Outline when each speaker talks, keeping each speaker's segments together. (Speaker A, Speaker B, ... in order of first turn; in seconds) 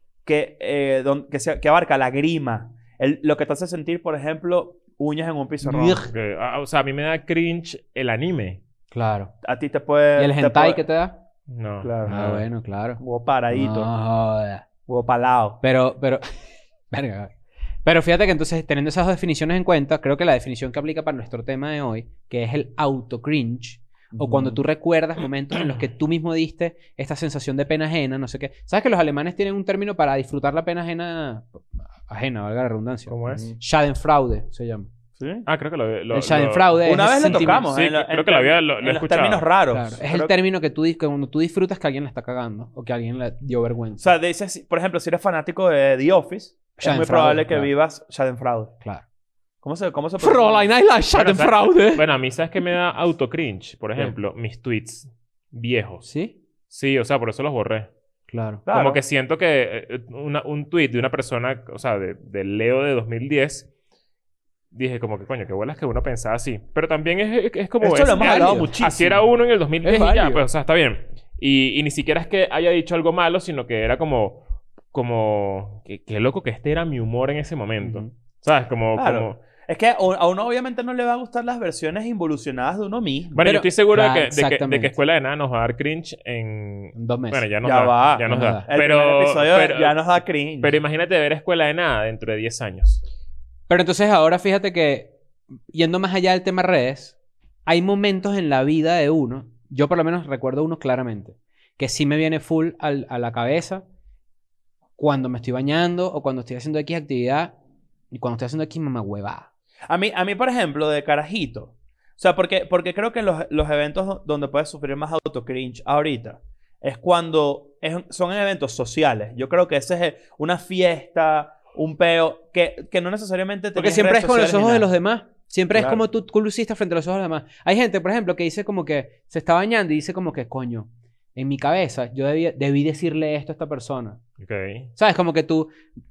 Speaker A: 0.2-6.0, 9.4-10.8, 11.8-12.2, 13.0-13.9, 14.9-15.6, 24.1-24.6, 33.3-33.5, 35.2-35.5, 36.8-40.3, 44.0-48.8, 49.6-50.7, 58.7-59.0, 67.8-69.2, 79.0-83.4, 87.6-90.8, 109.9-124.9, 125.7-126.0
Speaker B: 5.6-6.1, 8.9-9.3, 10.2-11.2, 12.1-14.7, 15.6-16.2, 16.9-17.3, 17.8-34.9, 36.1-37.7, 39.7-44.1, 46.8-47.7, 50.2-52.0, 56.0-56.4, 58.3-58.6, 68.1-68.7, 69.8-70.4, 83.4-85.0, 87.0-87.5, 88.3-88.7, 93.7-95.2, 95.7-103.8, 105.0-107.5, 108.1-109.5, 123.8-134.2, 135.0-135.7
Speaker C: 6.1-8.6, 11.5-12.4, 33.1-33.5, 35.5-39.5, 51.1-56.1, 56.7-57.9, 58.7-63.7, 64.7-79.4, 83.3-93.0, 134.4-134.9